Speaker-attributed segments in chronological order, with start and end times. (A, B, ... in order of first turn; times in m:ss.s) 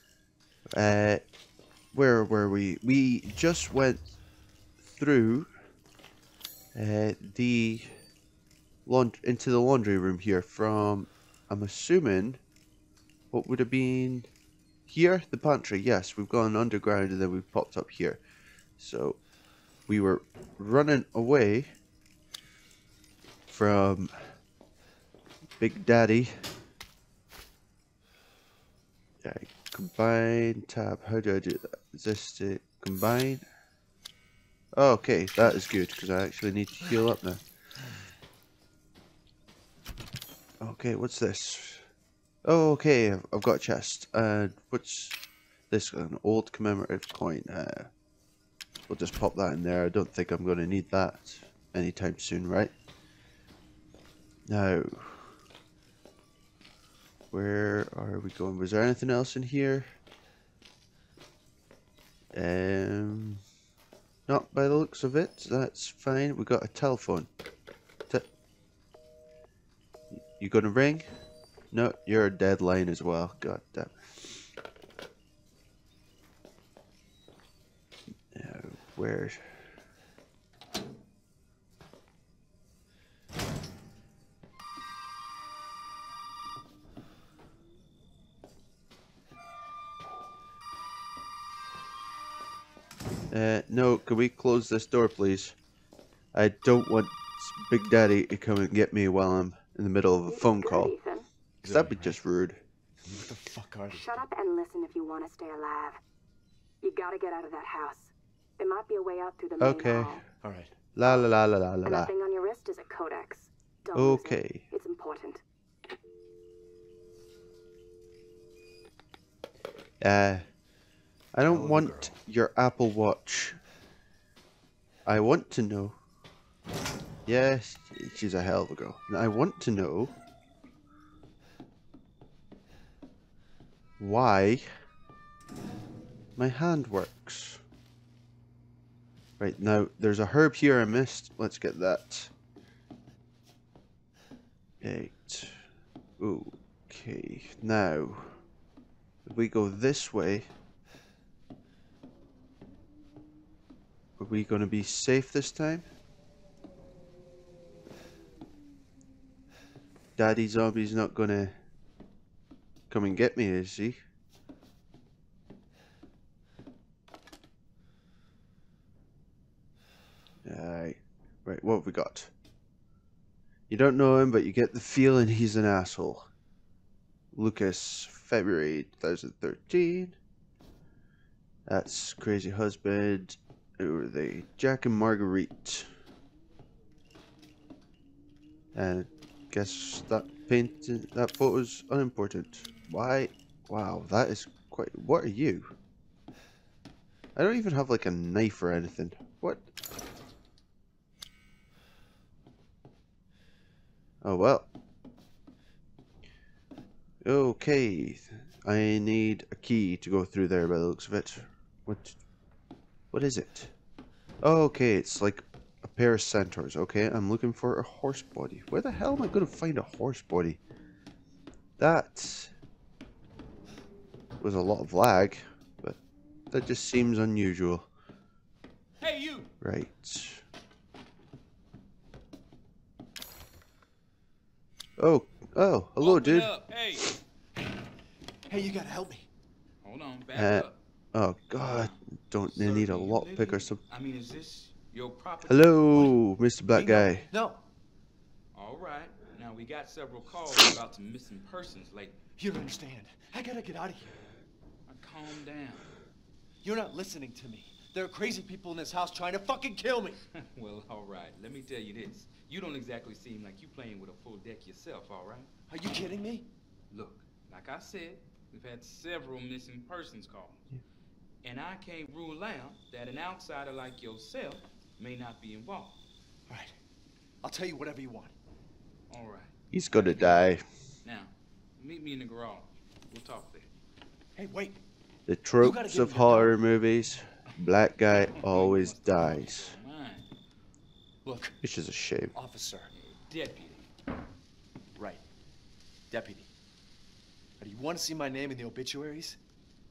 0:00.7-0:01.2 A
0:01.9-0:04.1 A
0:04.9-0:05.5 A
0:06.7-0:07.9 A
0:08.8-0:12.4 A
0:13.3-0:14.3 A
0:14.9-0:18.2 A
0:18.8-0:19.2 A
0:19.9-0:21.7 A
0:23.5-0:24.1 A
0:25.6-0:26.3 A
0:29.2-0:33.4 A
0:34.8-0:37.4 A
0:40.6-0:41.8 A
0:42.4-0:45.2 A
0:45.7-0:47.9 A
0:48.9-0:52.7 A
0:54.5-0:55.3 A
0:57.3-0:59.9 A
1:02.3-1:03.4 A
1:04.3-1:07.3 A
1:10.1-1:11.1 A
1:11.7-1:14.3 A
1:18.3-1:19.4 A
1:33.3-1:35.6 A
1:36.3-1:40.9 A
1:40.3-1:41.2 B
1:41.6-1:42.2 C
1:41.6-1:42.6 A
1:43.0-1:44.2 C
1:43.9-1:46.0 B
1:46.8-1:50.2 B
1:49.6-1:50.2 A
1:50.4-1:50.7 C
1:51.0-1:52.1 A
1:51.8-1:55.4 B
1:53.9-1:54.6 A
2:00.0-2:00.4 A
2:01.3-2:03.6 A
2:01.5-2:02.2 C
2:05.0-2:06.0 A
2:07.2-2:10.1 A
2:14.0-2:14.6 A
2:16.4-2:17.6 A
2:19.4-2:22.3 A
2:24.8-2:25.6 A
2:26.2-2:28.4 A
2:29.2-2:30.5 A
2:34.2-2:35.8 A
2:40.2-2:41.5 A
2:42.9-2:44.0 A
2:50.4-2:52.3 A
2:53.7-2:56.3 A
2:57.3-3:00.2 A
3:01.7-3:05.9 A
3:08.7-3:15.7 A
3:17.4-3:19.6 A
3:24.2-3:24.7 A
3:27.2-3:32.2 A
3:33.1-3:33.7 A
3:34.4-3:40.6 A
3:41.8-3:42.5 A
3:44.4-3:46.0 A
3:46.5-3:47.9 A
3:49.0-3:49.5 D
3:49.6-3:50.4 A
3:55.0-3:56.5 A
3:56.0-3:57.1 D
3:58.5-3:59.3 C
3:59.8-4:00.8 D
4:00.3-4:03.8 A
4:01.6-4:02.0 D
4:02.5-4:06.2 D
4:05.4-4:07.3 A
4:06.7-4:07.6 C
4:08.5-4:12.2 D
4:12.4-4:14.2 C
4:14.9-4:15.9 D
4:16.6-4:20.2 C
4:20.3-4:25.5 D
4:25.7-4:26.5 C
4:26.9-4:30.7 D
4:31.4-4:36.0 D
4:36.5-4:36.8 C
4:37.4-4:38.3 C
4:39.1-4:40.4 D
4:39.7-4:40.6 A
4:41.0-4:43.7 D
4:44.4-4:44.8 C
4:45.3-4:49.8 A
4:45.6-4:46.6 C
4:48.1-4:50.3 D
4:51.2-4:51.6 C
4:51.6-4:52.3 A
4:52.3-4:52.9 C
4:52.9-4:53.9 D
4:54.9-4:55.2 C
4:56.1-4:56.5 C
4:57.6-4:59.4 C